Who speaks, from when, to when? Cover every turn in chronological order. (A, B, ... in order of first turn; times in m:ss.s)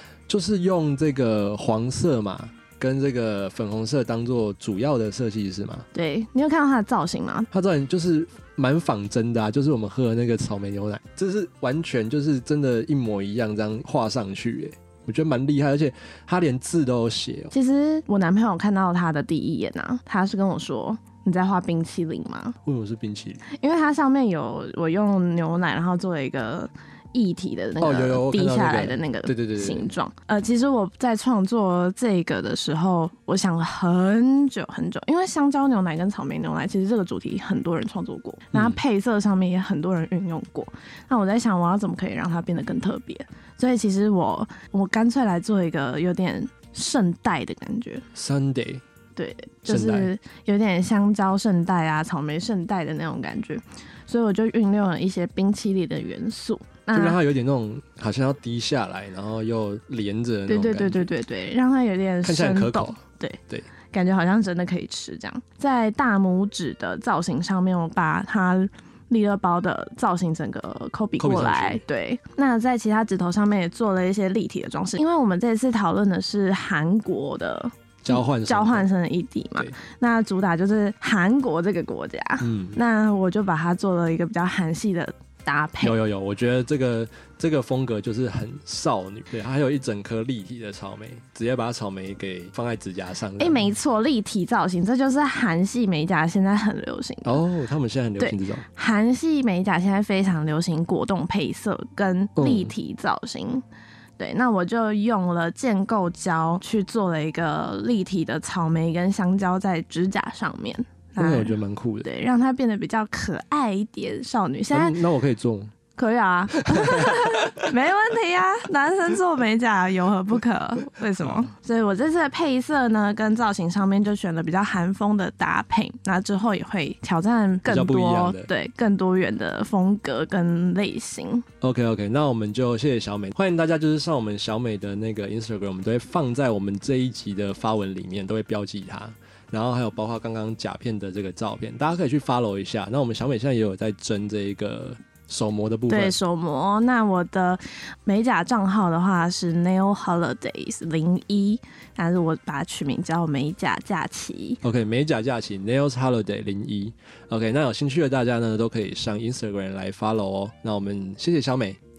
0:00.3-0:05.8 A
0:05.9-0:07.5 B
0:07.5-0:17.5 A
0:17.5-0:22.6 B
0:22.6-0:23.5 A
0:23.5-0:48.0 B
0:27.8-0:30.0 A
0:38.5-0:38.8 A
0:48.2-0:48.8 A
0:49.2-0:57.2 B
0:49.7-0:50.1 A
0:56.9-1:01.1 A
1:00.5-1:03.4 B
1:02.2-1:03.7 A
1:03.9-1:26.0 B
1:11.2-1:11.8 A
1:18.0-1:18.9 A
1:22.4-1:22.8 A
1:25.8-1:33.7 A
1:33.4-1:37.4 B
1:37.2-1:38.6 A
1:38.2-1:43.6 B
1:42.4-1:42.7 A
1:44.2-1:55.0 B
1:51.2-1:52.1 A
1:54.7-1:55.8 A
1:56.0-2:11.4 B
1:56.8-1:57.1 A
2:01.2-2:01.5 A
2:07.7-2:08.5 A
2:11.6-2:26.2 A
2:25.9-2:34.6 B
2:34.6-2:41.8 A